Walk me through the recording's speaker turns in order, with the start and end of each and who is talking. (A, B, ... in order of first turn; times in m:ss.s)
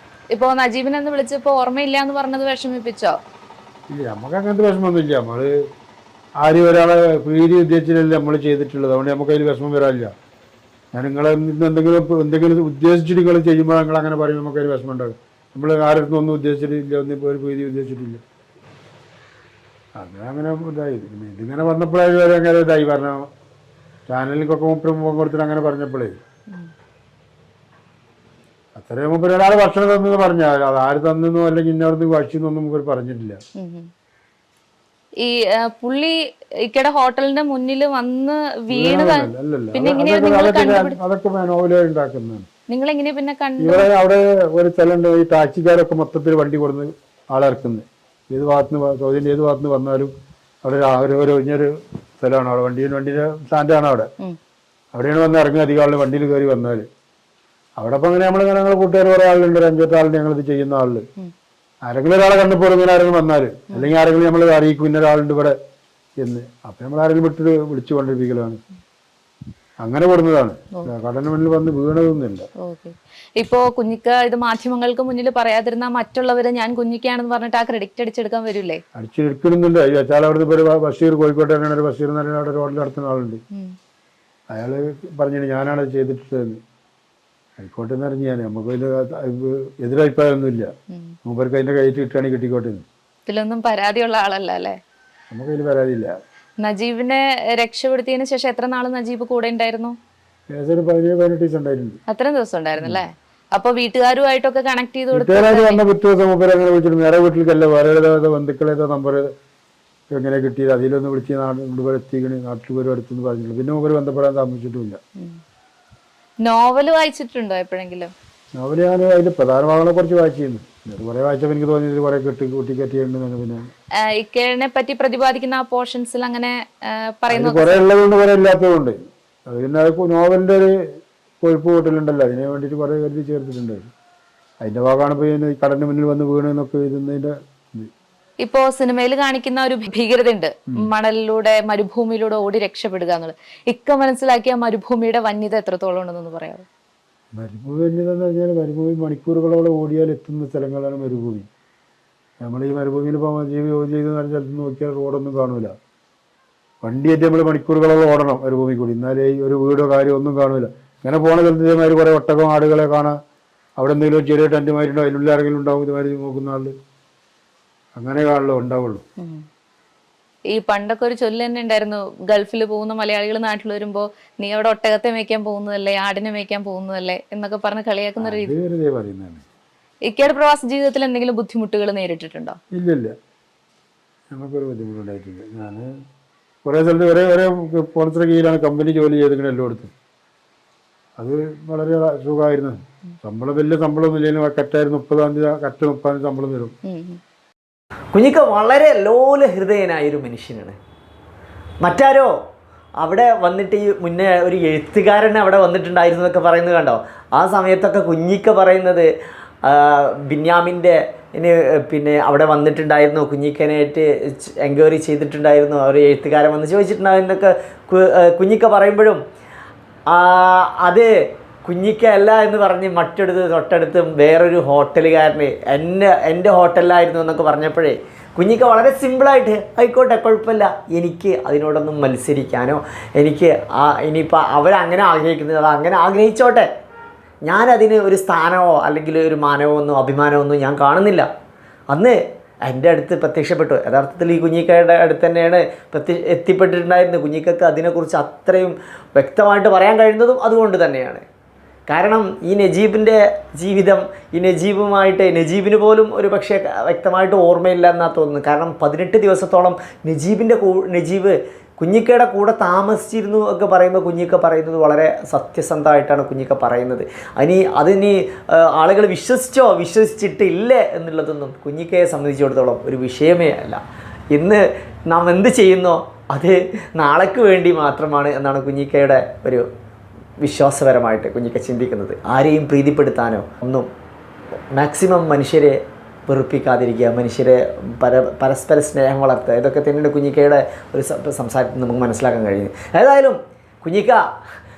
0:00.3-0:03.2 A
0:03.9-0:05.5 B
0:06.4-0:10.1 B
0:10.9-0:18.2 B
0:20.0-0:23.3 B
0:24.1-0:26.2 B
0:28.7-0:33.4 B
0:33.6-0:33.9 A
0:35.2-0:41.0 A
0:38.7-0:42.5 B
0:42.7-0:43.9 A
0:43.6-0:50.1 B
0:50.6-0:54.1 B
0:54.9-0:56.8 B
0:57.8-1:01.0 B
1:01.8-1:05.6 B
1:06.2-1:08.6 B
1:09.8-1:12.5 B
1:12.6-1:18.8 A
1:19.0-1:23.4 B
1:24.5-1:26.6 B
1:27.6-1:30.7 B
1:31.2-1:32.8 B
1:33.2-1:34.8 A
1:35.3-1:36.1 B
1:36.6-1:39.9 A
1:40.5-1:42.0 B
1:42.1-1:45.8 A
1:45.1-1:49.3 B
1:50.1-1:55.0 B
1:56.4-1:58.1 A
1:58.6-2:03.7 B
2:04.1-2:07.8 A
2:07.3-2:10.8 B
2:11.4-2:13.8 B
2:14.6-2:17.9 B
2:18.4-2:26.6 A
2:27.3-2:31.5 B
2:32.4-2:35.7 B
2:36.8-2:43.2 B
2:43.8-2:46.7 B
2:47.9-2:49.0 B
2:49.2-2:49.4 A
2:50.5-2:58.5 A
2:58.2-2:59.4 B
3:00.1-3:02.6 A
3:02.7-3:03.1 B
3:04.3-3:05.9 B
3:06.6-3:09.9 B
3:11.2-3:16.7 B
3:16.9-3:17.2 A
3:18.1-3:20.8 C
3:21.8-3:22.3 C
3:23.0-3:29.1 C
3:29.6-3:39.2 C
3:40.1-3:41.1 C
3:41.6-3:56.7 C
3:57.4-4:01.3 C
4:01.9-4:11.2 C
4:11.9-4:33.8 C
4:34.3-4:39.7 C
4:40.4-4:43.9 C
4:44.7-4:54.2 C